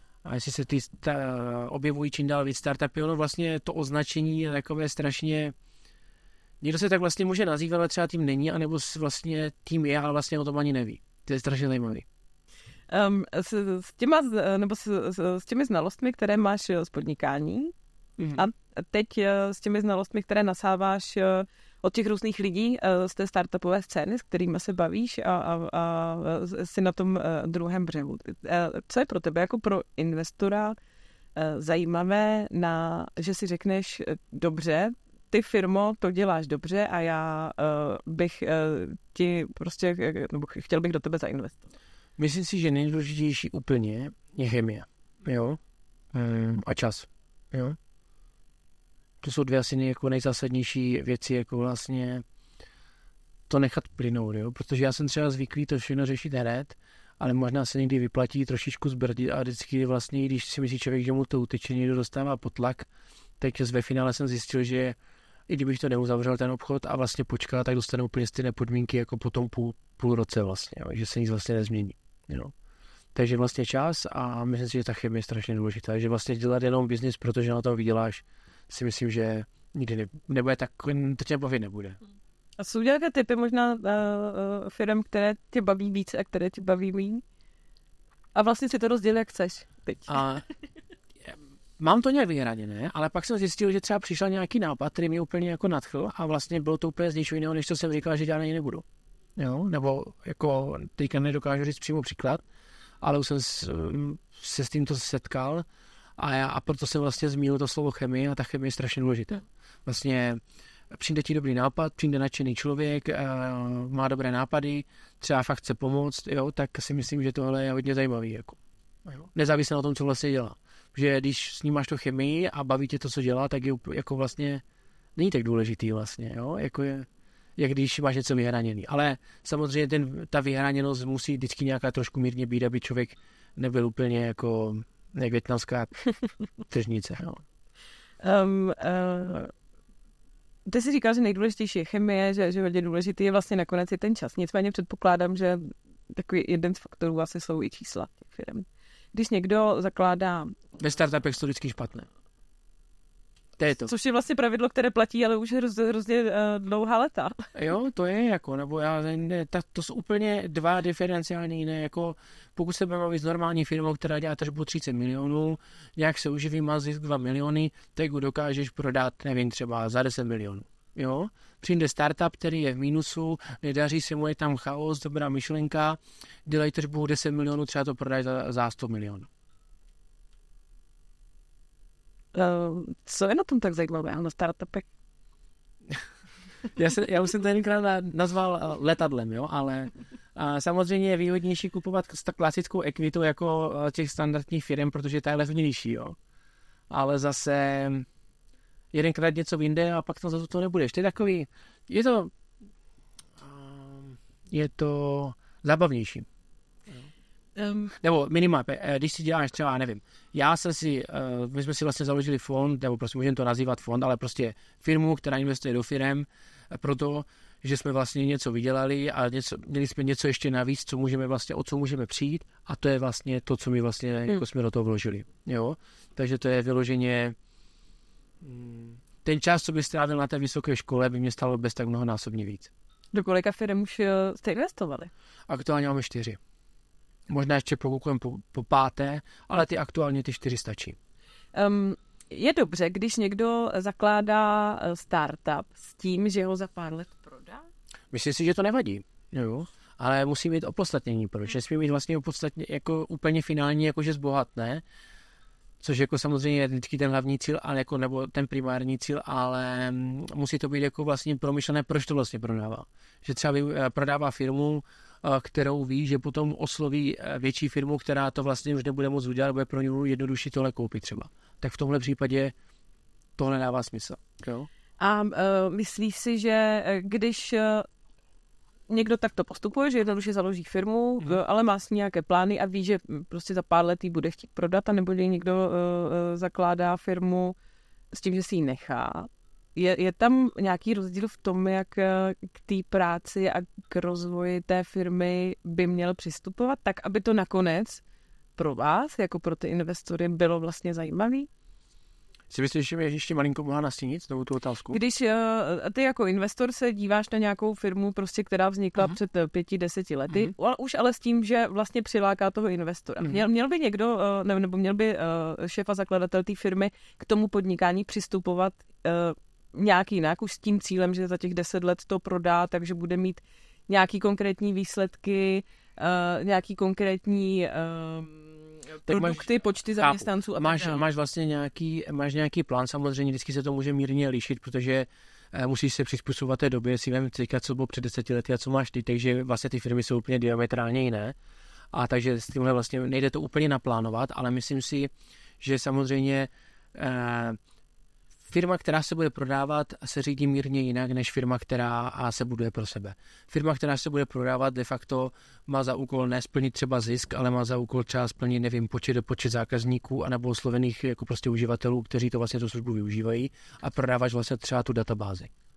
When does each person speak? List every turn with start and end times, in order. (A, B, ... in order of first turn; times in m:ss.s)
0:00.2-0:05.5 A
0:06.6-0:12.0 A
0:12.9-0:17.7 B
0:18.2-0:18.4 A
0:18.3-0:30.8 B
0:31.4-0:41.6 B
0:42.2-0:45.6 A
0:46.1-0:47.8 A
0:49.2-0:52.2 A
0:53.5-1:02.9 A
1:03.4-1:05.0 A
1:05.5-1:12.5 A
1:13.1-1:22.0 A
1:22.6-1:27.2 B
1:28.3-1:30.2 B
1:30.1-1:30.4 A
1:31.2-1:38.8 A
1:39.4-1:42.4 A
1:43.0-1:45.6 A
1:46.2-1:50.4 A
1:50.9-2:04.6 A
2:05.2-2:16.0 A
2:16.7-2:17.4 A
2:18.2-2:19.5 B
2:20.6-2:30.6 B
2:30.8-2:32.1 A
2:33.6-2:33.9 A
2:33.8-2:37.3 B
2:37.5-2:59.3 A
3:02.3-3:04.9 B
3:06.7-3:16.2 A
3:16.9-3:18.0 A
3:18.9-3:22.3 A
3:23.4-3:26.3 A
3:27.6-3:27.9 B
3:28.0-3:47.3 A
3:48.4-3:52.7 A
3:53.1-3:55.1 B
3:55.5-3:56.4 A
3:57.3-4:01.0 A
4:01.5-4:07.7 B
4:08.1-4:14.8 A
4:15.8-4:32.5 A
4:33.4-4:34.7 A
4:35.0-4:37.9 B
4:38.9-4:47.6 B
4:48.1-4:58.0 B
4:58.6-5:01.5 B
5:02.5-5:05.0 A
5:04.9-5:31.0 B
5:29.1-5:29.5 A
5:30.0-5:41.4 A
5:41.9-5:47.6 A
5:48.4-6:05.5 A